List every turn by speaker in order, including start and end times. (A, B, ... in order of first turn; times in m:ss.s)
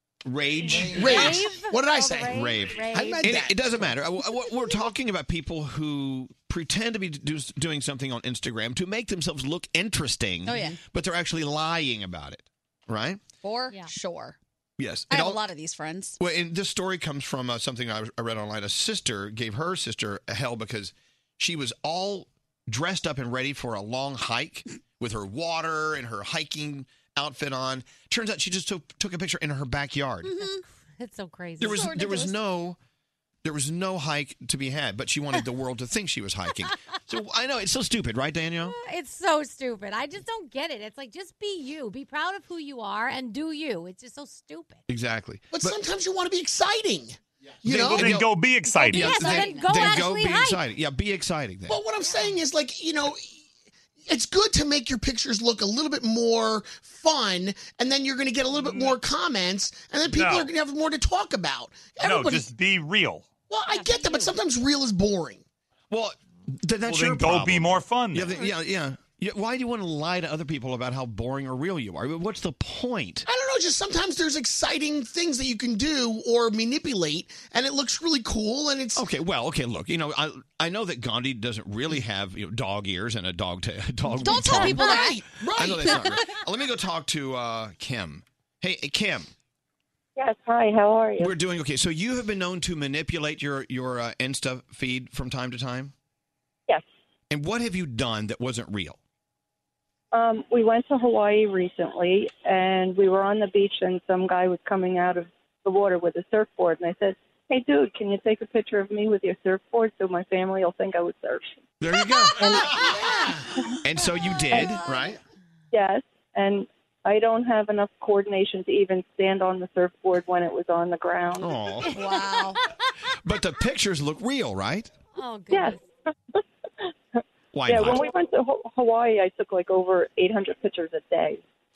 0:00.3-0:01.1 A
0:00.8-0:03.8 B
0:01.0-0:03.4 C
0:02.3-0:13.2 A
0:10.4-0:10.8 D
0:13.4-0:14.4 D
0:14.8-0:15.4 A
0:15.1-0:16.2 D
0:16.2-0:30.4 A
0:30.2-0:30.6 D
0:30.6-0:32.0 C
0:31.6-0:32.8 A
0:31.6-0:32.4 D
0:33.4-0:38.7 A
0:38.6-0:44.8 C
0:44.9-0:45.8 A
0:45.5-0:48.3 B
0:47.7-0:48.2 A
0:47.7-0:49.3 E
0:48.7-0:50.6 C
0:48.9-0:51.8 A
0:51.7-0:53.3 B
0:54.1-1:02.5 B
1:00.1-1:00.5 E
1:02.0-1:03.3 E
1:03.5-1:05.4 B
1:03.7-1:04.4 C
1:05.9-1:13.3 A
1:06.9-1:08.4 E
1:13.3-1:19.0 B
1:19.0-1:25.0 A
1:24.2-1:25.2 D
1:24.6-1:25.9 B
1:25.6-1:29.3 A
1:25.8-1:26.3 D
1:30.2-1:31.3 F
1:31.2-1:35.9 A
1:37.3-1:39.0 A
1:40.1-1:51.6 F
1:51.8-1:52.4 A
1:52.4-1:52.8 F
1:53.8-1:55.2 A
1:55.7-2:01.6 F
2:01.4-2:02.0 A
2:01.9-2:02.6 D
2:02.1-2:02.7 C
2:03.2-2:04.9 A
2:05.1-2:05.8 C
2:05.5-2:05.8 F
2:07.2-2:11.4 F
2:07.5-2:08.0 A